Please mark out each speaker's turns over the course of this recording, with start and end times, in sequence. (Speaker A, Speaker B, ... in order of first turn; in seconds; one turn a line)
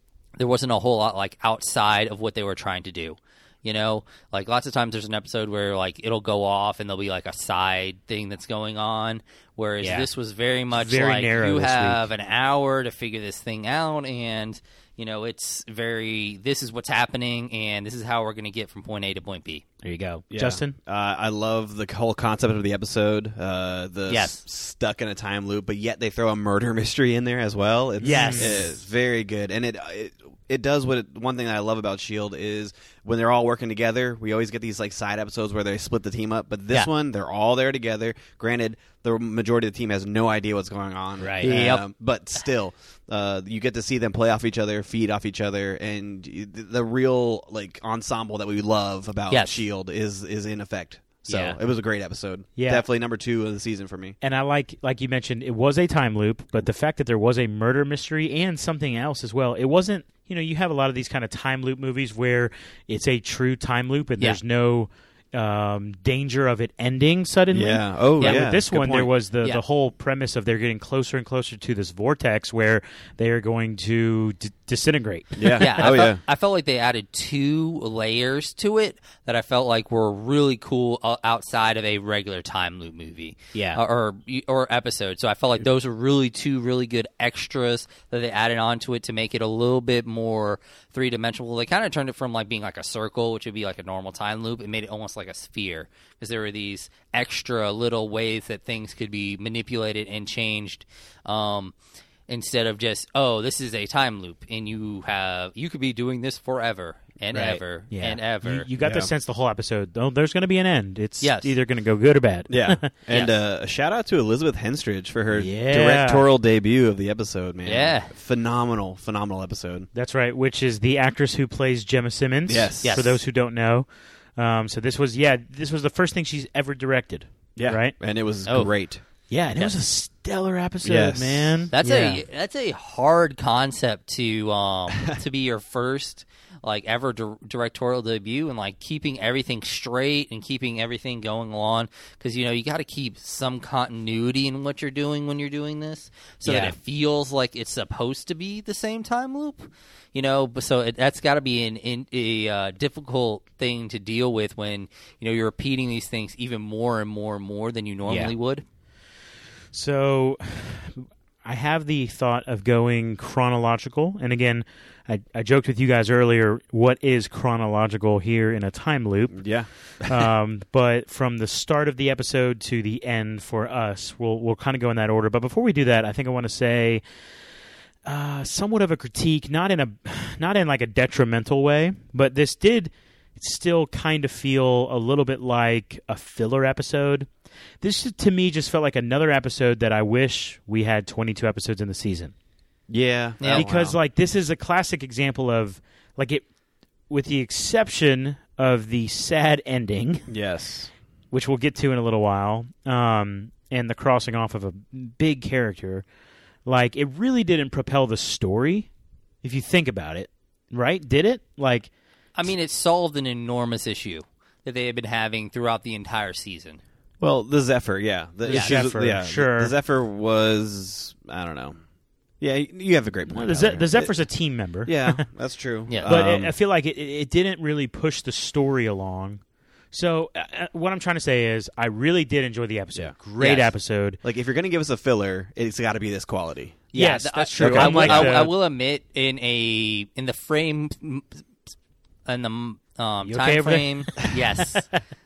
Speaker A: 0.4-19.6
Speaker B: 9.8-10.1
Speaker B: 10.7-12.1
Speaker B: 19.8-20.8
Speaker C: 20.3-54.2
Speaker A: 24.1-24.4
Speaker B: 28.0-28.7
Speaker A: 28.1-28.6
Speaker B: 41.2-41.5
Speaker A: 41.4-41.9
Speaker A: 49.3-49.6
Speaker A: 51.3-51.6
Speaker B: 52.6-52.9
Speaker B: 54.2-75.9
Speaker C: 67.5-69.1
Speaker A: 68.2-68.5
Speaker C: 75.4-76.2
Speaker A: 75.6-101.7
Speaker B: 83.5-83.8
Speaker A: 102.3-108.7
Speaker C: 107.3-107.6
Speaker B: 107.9-112.9
Speaker C: 108.8-109.1
Speaker A: 111.2-111.5
Speaker C: 112.5-119.9
Speaker B: 115.3-116.3
Speaker A: 117.7-118.1
Speaker B: 120.0-123.9
Speaker C: 122.5-123.0
Speaker A: 122.8-123.2
Speaker B: 124.4-128.0
Speaker C: 127.6-129.0
Speaker B: 129.3-132.2
Speaker C: 130.8-131.7
Speaker A: 131.7-158.6
Speaker B: 146.4-146.8
Speaker B: 158.1-158.3
Speaker B: 159.7-169.4
Speaker C: 169.3-170.3
Speaker B: 170.0-177.0
Speaker B: 178.1-187.3
Speaker B: 187.8-192.3
Speaker C: 192.9-194.0
Speaker A: 193.4-193.7
Speaker B: 193.5-196.5
Speaker B: 197.1-200.3
Speaker C: 200.3-200.9
Speaker B: 201.3-206.1
Speaker B: 206.7-208.9
Speaker B: 209.4-211.9
Speaker A: 212.3-216.8
Speaker C: 217.2-221.8
Speaker B: 218.5-219.8
Speaker A: 218.5-218.8
Speaker C: 222.4-224.1
Speaker B: 223.3-225.2
Speaker C: 224.8-226.5
Speaker B: 226.0-229.4
Speaker B: 229.9-234.2
Speaker A: 233.4-233.7
Speaker C: 234.2-236.9
Speaker A: 236.9-241.3
Speaker B: 236.9-238.5
Speaker C: 237.6-238.5
Speaker A: 242.3-244.9
Speaker B: 243.2-244.6